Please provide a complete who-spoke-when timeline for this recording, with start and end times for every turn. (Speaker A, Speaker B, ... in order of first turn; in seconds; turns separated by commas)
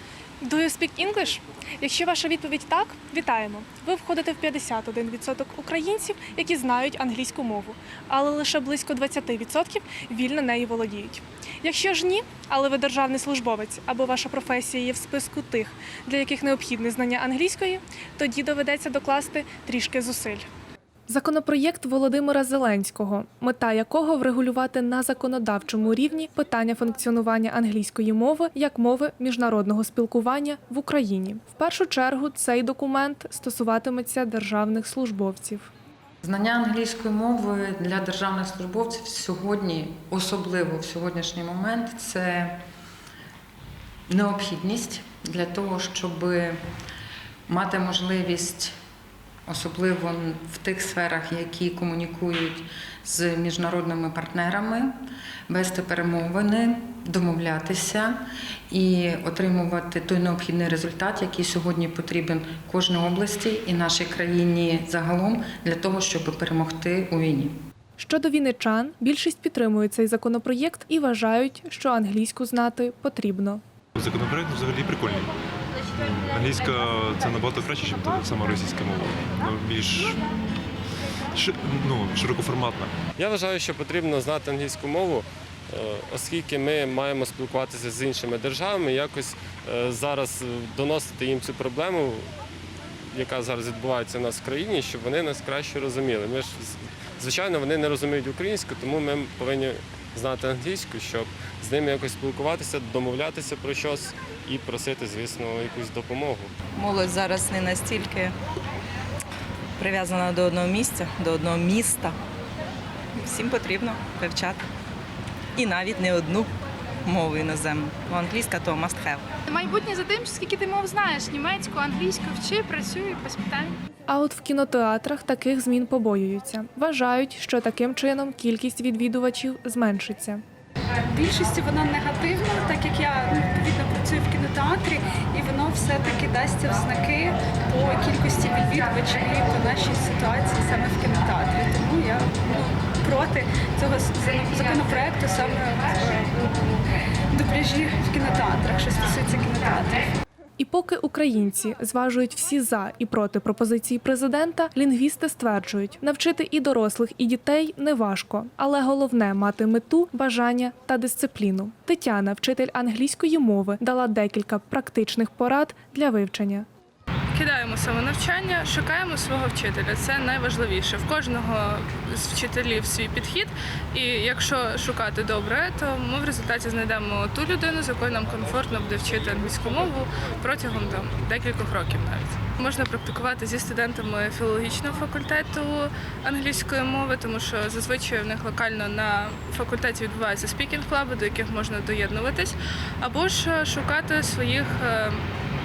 Speaker A: 0.4-20.4, Speaker A: 21.1-35.7, Speaker B: 36.2-42.6, Speaker B: 44.1-46.6, Speaker B: 47.5-48.7, Speaker B: 49.5-55.0, Speaker B: 55.5-67.5, Speaker A: 68.0-73.6, Speaker C: 74.0-75.3, Speaker C: 75.9-80.2, Speaker C: 81.3-82.9, Speaker D: 83.2-92.3, Speaker D: 93.1-106.5, Speaker E: 106.8-108.3, Speaker E: 109.8-112.1, Speaker E: 113.2-114.6, Speaker E: 115.5-116.5, Speaker E: 117.0-119.2, Speaker F: 119.5-123.8, Speaker A: 124.1-130.4, Speaker G: 131.1-150.1, Speaker A: 150.6-166.7, Speaker H: 167.3-195.2